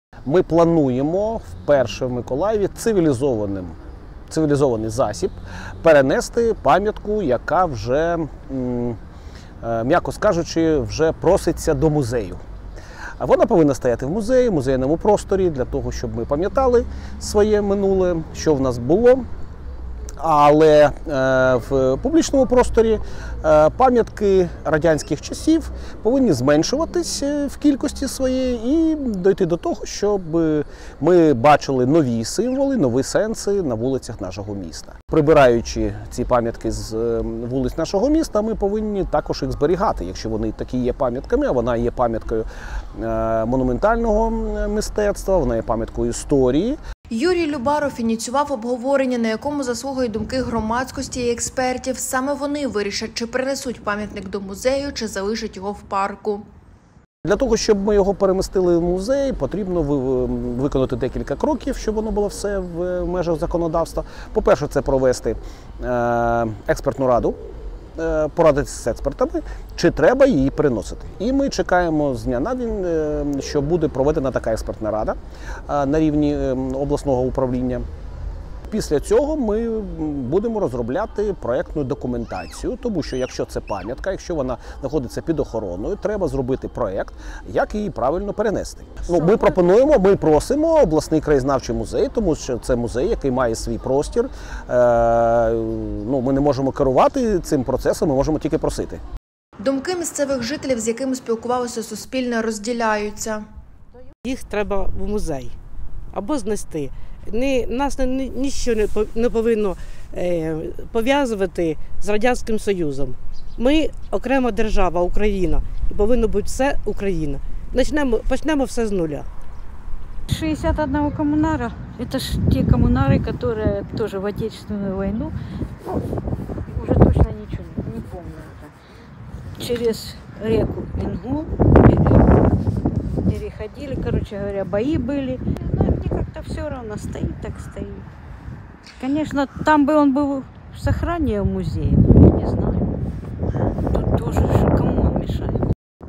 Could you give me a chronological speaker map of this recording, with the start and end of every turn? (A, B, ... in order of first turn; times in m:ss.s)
0:00.2-0:03.8 A
0:04.3-0:09.0 A
0:09.6-0:12.4 A
0:13.2-0:19.3 A
0:20.2-0:46.8 A
0:47.1-0:56.4 B
0:57.2-1:07.4 A
1:08.0-1:15.2 A
1:15.7-1:17.9 A
1:18.7-1:39.0 A
1:39.6-1:43.4 B
1:44.3-1:45.5 C
1:46.1-1:59.3 C
2:00.3-2:05.3 D
2:06.7-2:08.7 D
2:09.6-2:12.2 D
2:13.3-2:18.1 D
2:19.0-2:22.9 D
2:23.9-2:25.6 D